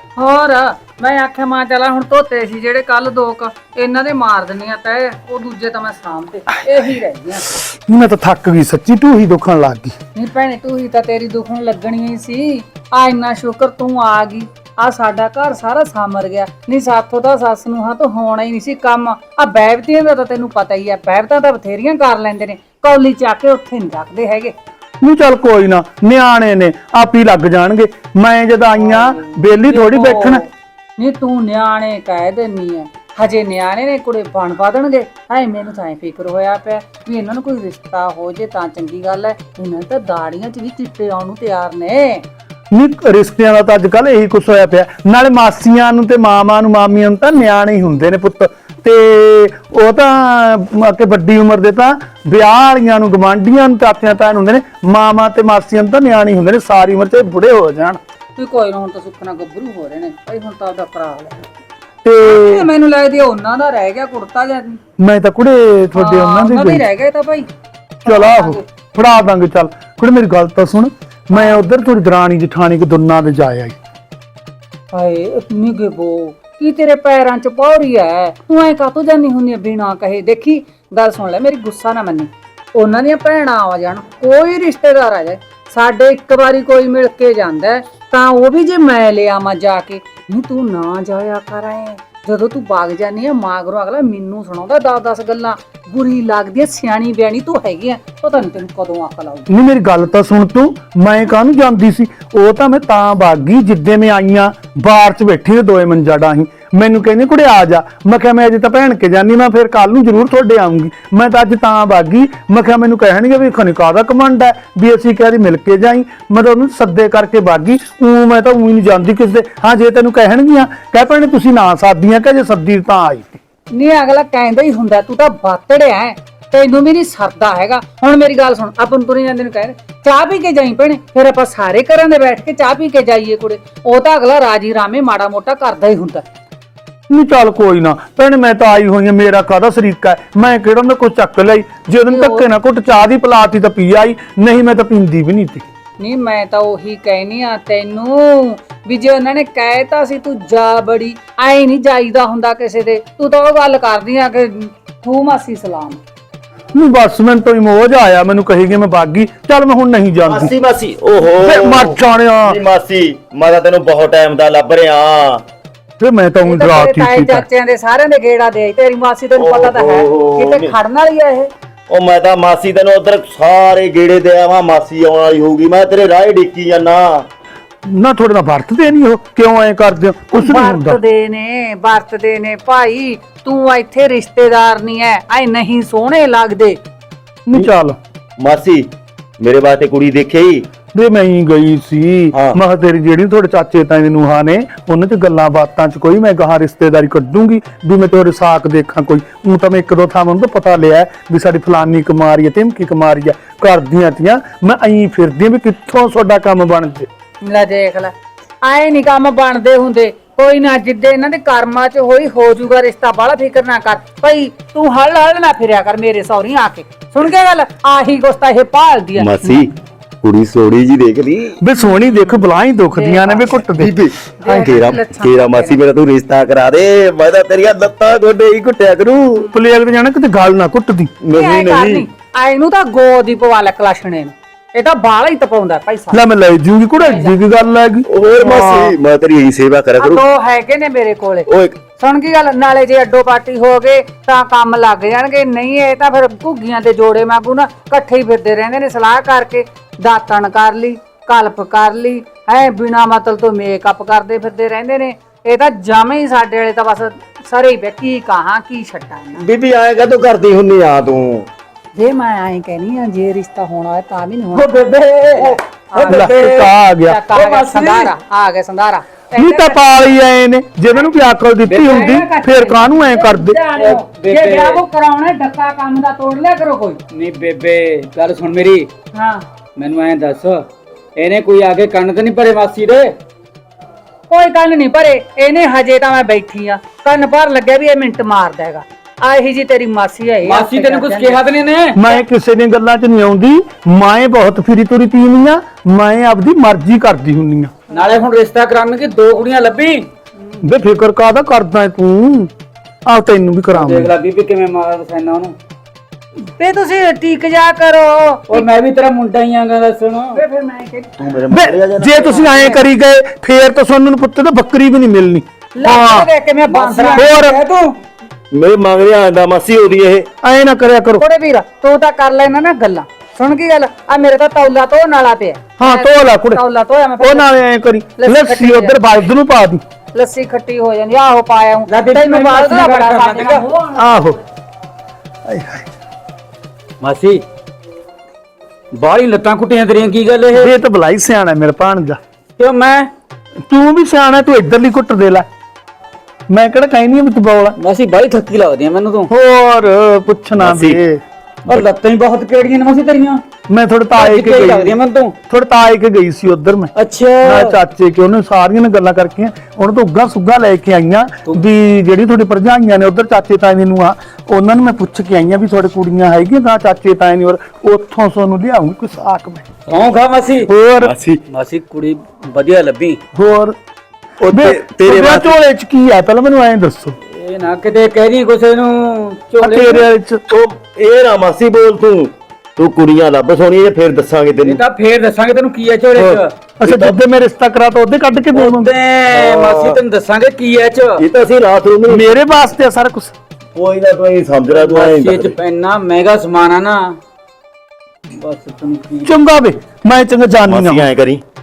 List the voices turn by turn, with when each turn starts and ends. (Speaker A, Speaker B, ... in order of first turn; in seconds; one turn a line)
Speaker A: 0.1-7.6
Speaker B: 7.6-9.9
Speaker A: 10.1-24.5
Speaker B: 25.0-30.4
Speaker A: 28.8-30.4
Speaker A: 31.0-42.2
Speaker B: 42.7-58.0
Speaker A: 58.4-61.5
Speaker B: 62.0-62.7
Speaker A: 62.2-64.8
Speaker B: 65.0-66.8
Speaker A: 65.9-67.5
Speaker A: 68.0-68.6
Speaker B: 68.0-73.8
Speaker A: 71.3-71.6
Speaker A: 74.9-99.5
Speaker B: 99.5-123.4
Speaker A: 123.7-136.2
Speaker B: 137.1-145.6
Speaker A: 142.1-142.5
Speaker A: 146.0-156.0
Speaker B: 156.7-160.5
Speaker C: 160.2-165.4
Speaker B: 161.4-162.6
Speaker B: 166.0-167.4
Speaker A: 166.4-171.5
Speaker C: 169.4-170.7
Speaker C: 171.9-177.3
Speaker B: 177.9-181.0
Speaker A: 180.3-186.8
Speaker B: 187.5-188.0
Speaker C: 188.4-188.9
Speaker C: 189.4-190.7
Speaker B: 190.9-207.1
Speaker A: 207.4-208.1
Speaker A: 208.6-219.6
Speaker C: 219.2-219.7
Speaker C: 220.2-221.6
Speaker B: 221.6-224.8
Speaker A: 221.8-222.4
Speaker A: 222.9-223.6
Speaker C: 223.8-229.4
Speaker A: 224.4-225.8
Speaker B: 229.5-231.1
Speaker C: 231.2-232.0
Speaker A: 231.3-236.2
Speaker B: 236.1-238.9
Speaker A: 237.0-237.3
Speaker C: 238.1-240.2
Speaker A: 240.0-259.4
Speaker C: 241.5-241.8
Speaker C: 259.4-261.5
Speaker A: 261.9-264.7
Speaker D: 264.5-266.7
Speaker A: 265.4-266.4
Speaker B: 266.1-267.2
Speaker A: 267.1-269.9
Speaker D: 267.3-268.1
Speaker B: 269.4-273.6
Speaker D: 271.7-272.0
Speaker A: 271.8-277.0
Speaker D: 273.7-274.8
Speaker D: 277.1-278.9
Speaker A: 279.1-279.4
Speaker D: 279.8-280.6
Speaker D: 281.2-283.1
Speaker A: 284.3-291.5
Speaker D: 290.4-292.0
Speaker B: 291.9-297.7
Speaker D: 297.9-300.1
Speaker B: 300.6-302.5
Speaker B: 303.1-304.1
Speaker D: 303.7-305.5
Speaker A: 306.5-308.6
Speaker D: 308.5-310.4
Speaker A: 310.3-311.2
Speaker C: 311.2-312.4
Speaker B: 311.5-316.3
Speaker A: 312.3-312.8
Speaker A: 315.8-317.3
Speaker D: 316.7-317.9
Speaker B: 317.2-317.6
Speaker C: 318.5-320.2
Speaker B: 320.4-321.2
Speaker A: 321.2-327.5
Speaker B: 325.8-326.6
Speaker B: 327.2-329.8
Speaker A: 328.2-328.9
Speaker A: 330.1-334.1
Speaker D: 331.9-333.6
Speaker B: 334.0-334.4
Speaker B: 335.5-335.9
Speaker D: 337.0-337.4
Speaker D: 338.9-340.7
Speaker B: 340.5-342.2
Speaker D: 342.6-343.1
Speaker B: 343.7-345.4
Speaker B: 346.5-347.8
Speaker D: 347.8-349.3
Speaker B: 349.3-351.2
Speaker C: 350.6-351.0
Speaker D: 351.7-353.4
Speaker B: 353.7-355.0
Speaker D: 354.2-355.3
Speaker B: 355.5-369.7
Speaker D: 357.0-357.8
Speaker D: 369.9-373.2
Speaker B: 370.6-371.1
Speaker C: 371.0-371.4
Speaker B: 373.3-373.8
Speaker C: 374.4-375.5
Speaker B: 374.5-377.1
Speaker D: 377.3-380.1
Speaker B: 379.6-380.4
Speaker C: 380.5-384.8
Speaker D: 384.6-386.5
Speaker B: 386.1-388.9
Speaker C: 386.8-387.1
Speaker D: 388.5-391.2
Speaker C: 389.2-390.0
Speaker C: 391.2-392.3
Speaker B: 392.1-393.3
Speaker C: 393.8-395.6
Speaker D: 394.7-397.2
Speaker D: 398.4-399.3
Speaker B: 399.2-401.1
Speaker C: 400.7-401.4